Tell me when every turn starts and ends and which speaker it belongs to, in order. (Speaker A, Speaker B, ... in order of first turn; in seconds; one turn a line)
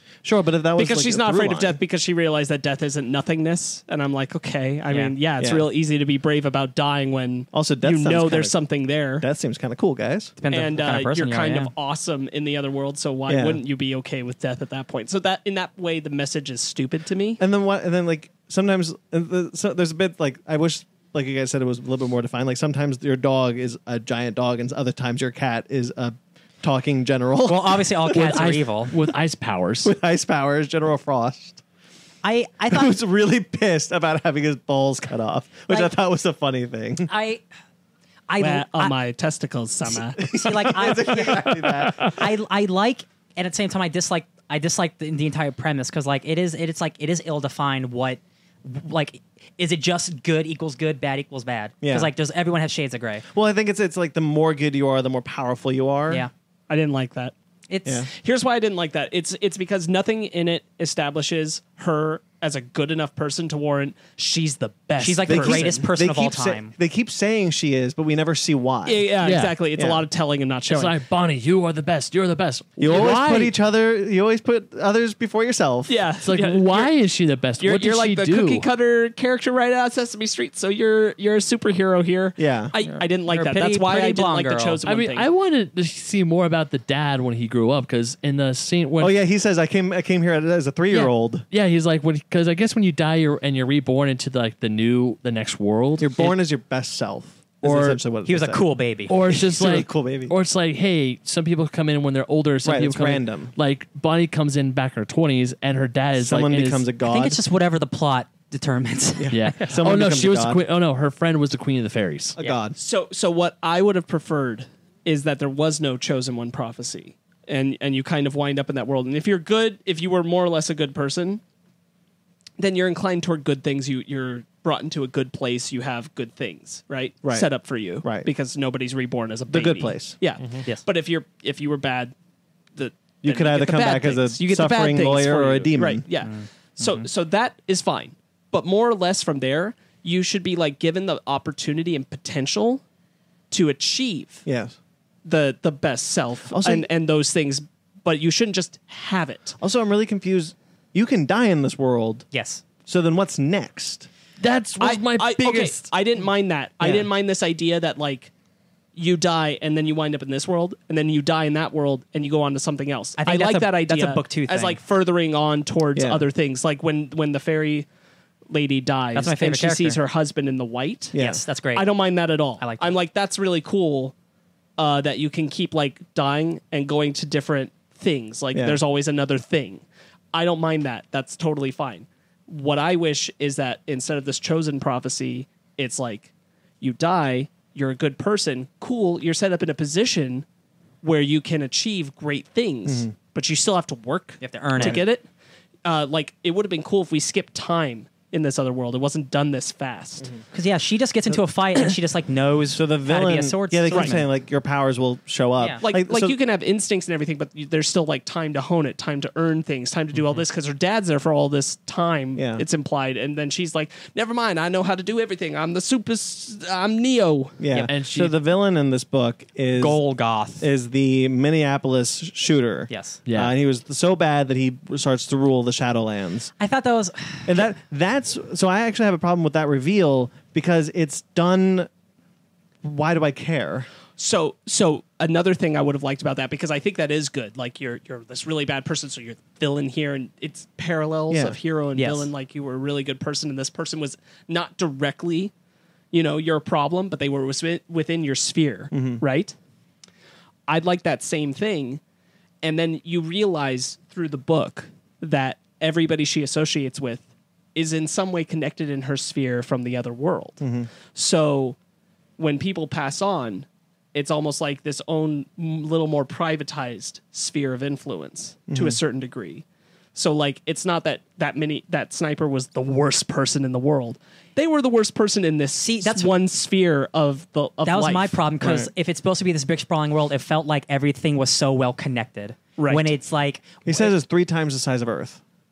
Speaker A: 0.2-1.8
Speaker B: 0.8-9.2
Speaker C: 4.9-5.2
Speaker A: 5.4-5.7
Speaker A: 7.5-8.6
Speaker A: 9.2-10.3
Speaker C: 10.4-11.7
Speaker B: 10.5-17.4
Speaker A: 13.3-13.6
Speaker A: 17.4-28.4
Speaker C: 27.4-28.9
Speaker D: 28.1-29.9
Speaker A: 29.8-31.6
Speaker C: 32.2-32.9
Speaker A: 32.7-37.1
Speaker C: 37.1-37.4
Speaker C: 38.3-39.0
Speaker B: 38.4-40.2
Speaker C: 39.9-53.2
Speaker A: 40.2-42.1
Speaker A: 51.8-52.1
Speaker A: 53.3-56.3
Speaker B: 56.7-57.3
Speaker C: 57.7-58.1
Speaker A: 57.8-58.1
Speaker B: 58.1-65.8
Speaker C: 65.0-66.7
Speaker A: 65.3-69.1
Speaker B: 68.8-71.0
Speaker D: 69.2-69.6
Speaker A: 69.7-70.0
Speaker D: 70.7-73.5
Speaker A: 72.8-76.0
Speaker B: 75.9-76.9
Speaker D: 76.2-78.7
Speaker B: 77.6-85.3
Speaker A: 82.4-82.7
Speaker C: 82.8-84.8
Speaker D: 84.8-89.1
Speaker A: 89.0-91.5
Speaker D: 91.5-96.3
Speaker A: 96.0-98.6
Speaker D: 97.6-98.0
Speaker C: 98.2-99.1
Speaker D: 99.1-106.8
Speaker A: 99.3-100.3
Speaker A: 102.6-103.5
Speaker A: 106.2-107.4
Speaker C: 107.0-109.8
Speaker A: 109.2-110.6
Speaker D: 109.3-112.4
Speaker A: 112.3-112.8
Speaker B: 112.8-121.4
Speaker B: 122.6-132.1
Speaker A: 128.0-128.3
Speaker A: 129.5-130.2
Speaker B: 132.7-142.8
Speaker A: 133.2-136.0
Speaker C: 136.2-137.0
Speaker B: 143.5-144.4
Speaker A: 144.4-144.8
Speaker B: 145.2-149.6
Speaker A: 146.5-146.9
Speaker A: 149.6-152.3
Speaker C: 152.3-152.6
Speaker A: 152.8-154.1
Speaker D: 154.4-155.9
Speaker B: 154.8-158.3
Speaker A: 156.8-157.1
Speaker B: 158.9-167.9
Speaker C: 163.2-164.8
Speaker A: 165.9-166.2
Speaker B: 168.5-171.2
Speaker C: 169.1-170.0
Speaker A: 171.1-171.4
Speaker C: 171.2-171.9
Speaker B: 171.7-174.1
Speaker C: 172.6-173.0
Speaker B: 174.8-190.4
Speaker A: 178.5-178.8
Speaker B: 191.0-195.3
Speaker A: 192.8-193.2
Speaker C: 194.4-195.0
Speaker B: 195.8-200.3
Speaker C: 200.5-204.3
Speaker A: 202.7-206.3
Speaker B: 203.9-204.2
Speaker C: 205.6-205.8
Speaker B: 205.8-217.6
Speaker A: 212.3-212.6
Speaker A: 217.6-220.0
Speaker D: 217.7-218.4
Speaker C: 219.8-220.7
Speaker A: 220.6-226.5
Speaker C: 222.9-223.2
Speaker D: 223.2-223.5
Speaker C: 226.6-227.6
Speaker A: 227.4-231.9
Speaker A: 232.8-233.9
Speaker B: 234.2-245.5
Speaker A: 241.3-241.6
Speaker C: 241.9-242.3
Speaker B: 246.1-249.5
Speaker A: 248.9-249.2
Speaker B: 250.7-252.0
Speaker B: 252.6-261.8
Speaker A: 260.6-260.9
Speaker B: 262.4-278.5
Speaker A: 268.7-269.0
Speaker C: 275.8-276.3
Speaker C: 277.8-284.1
Speaker A: 278.6-278.9
Speaker B: 282.8-283.1
Speaker A: 283.8-285.4